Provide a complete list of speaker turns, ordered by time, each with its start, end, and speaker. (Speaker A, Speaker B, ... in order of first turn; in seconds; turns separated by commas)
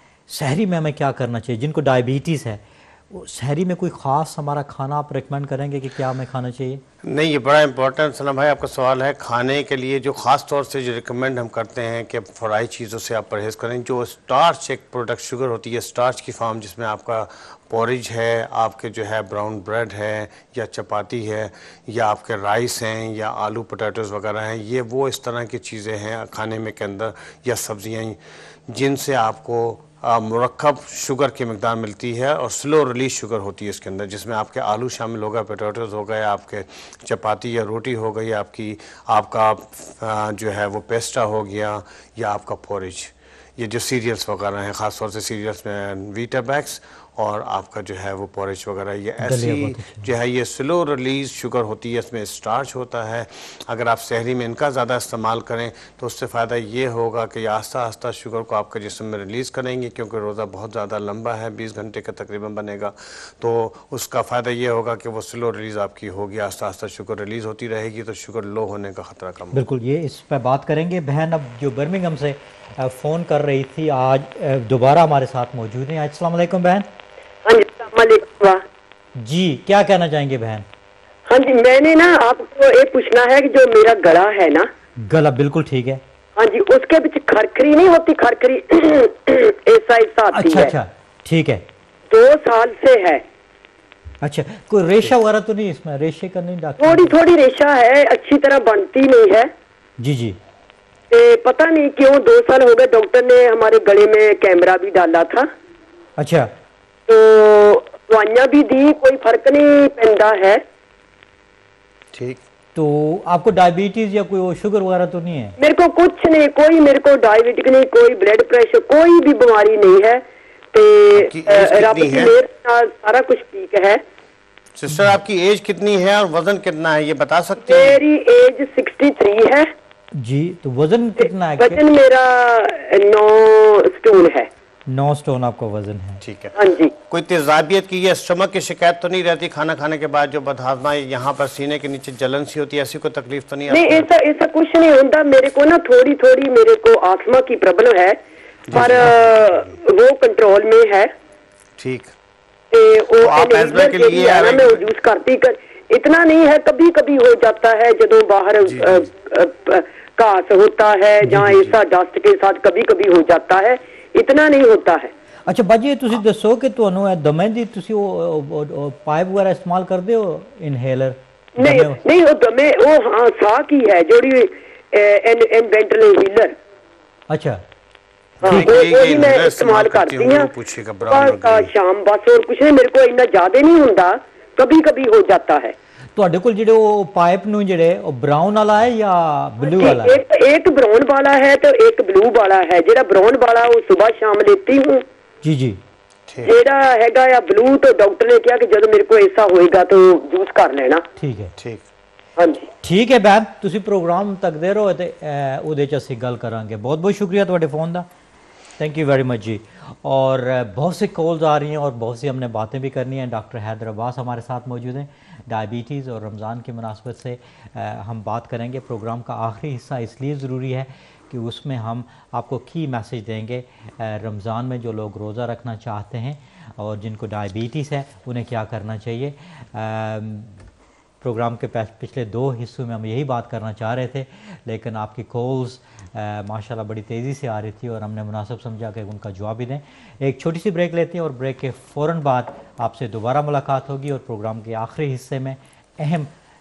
Speaker A: 0.3-6.8, Speaker B: 7.0-69.6, Speaker A: 49.2-50.1, Speaker A: 69.5-76.9, Speaker C: 77.5-78.6, Speaker A: 79.2-80.7, Speaker C: 81.3-84.7, Speaker A: 85.1-86.0, Speaker C: 86.4-90.7, Speaker A: 90.3-91.6, Speaker C: 92.1-93.2, Speaker A: 94.2-97.1, Speaker C: 96.8-99.5, Speaker A: 100.0-100.4, Speaker C: 101.1-105.5, Speaker A: 106.2-106.5, Speaker C: 107.1-110.6, Speaker B: 112.1-112.4, Speaker A: 112.8-115.5, Speaker C: 115.6-124.0, Speaker B: 121.2-122.3, Speaker B: 124.8-128.0, Speaker C: 127.7-129.7, Speaker A: 130.2-131.8, Speaker C: 131.2-134.5, Speaker A: 134.9-136.2, Speaker B: 136.2-144.1, Speaker C: 136.6-136.9, Speaker C: 143.7-148.2, Speaker B: 148.7-149.8, Speaker C: 148.7-151.1, Speaker B: 151.8-152.1, Speaker C: 152.7-165.1, Speaker B: 153.2-154.8, Speaker B: 158.7-159.1, Speaker A: 161.3-161.6, Speaker B: 161.4-161.8, Speaker A: 165.5-172.0, Speaker C: 171.6-176.6, Speaker A: 177.3-177.6, Speaker C: 178.4-180.5, Speaker A: 178.4-178.7, Speaker B: 178.4-181.7, Speaker C: 181.1-185.7, Speaker A: 186.2-190.2, Speaker C: 189.6-195.1, Speaker A: 195.4-195.8, Speaker B: 196.3-196.5, Speaker C: 196.4-201.0, Speaker A: 201.2-201.6, Speaker B: 201.6-201.8, Speaker C: 202.4-202.7, Speaker A: 202.8-208.1, Speaker A: 208.8-230.6, Speaker A: 231.2-246.3